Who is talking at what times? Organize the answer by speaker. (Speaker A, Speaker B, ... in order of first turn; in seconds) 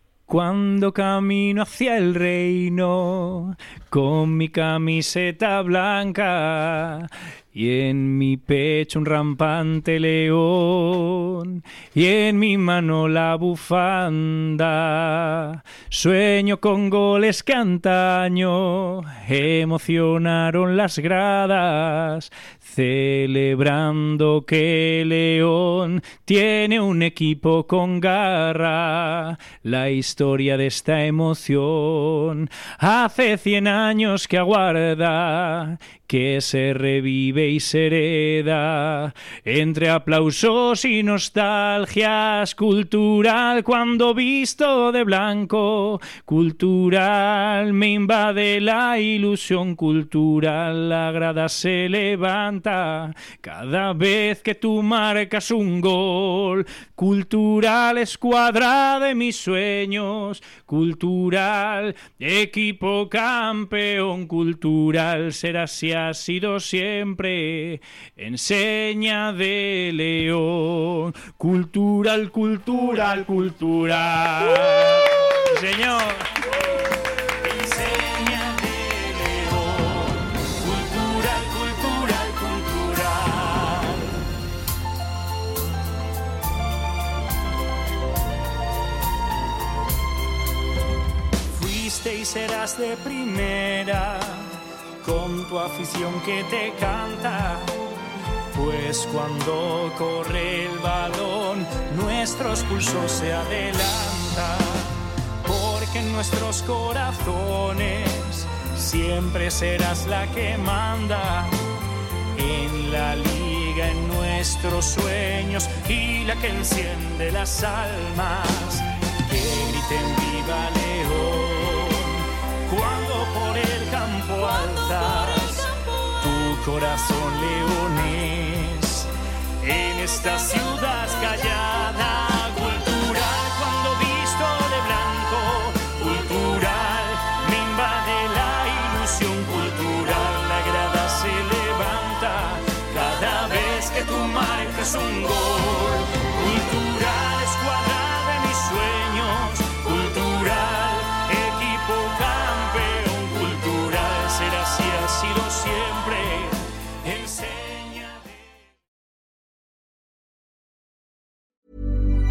Speaker A: 0.3-84.2, 91.5-97.7, 98.5-104.9, 105.4-111.5, 112.3-158.5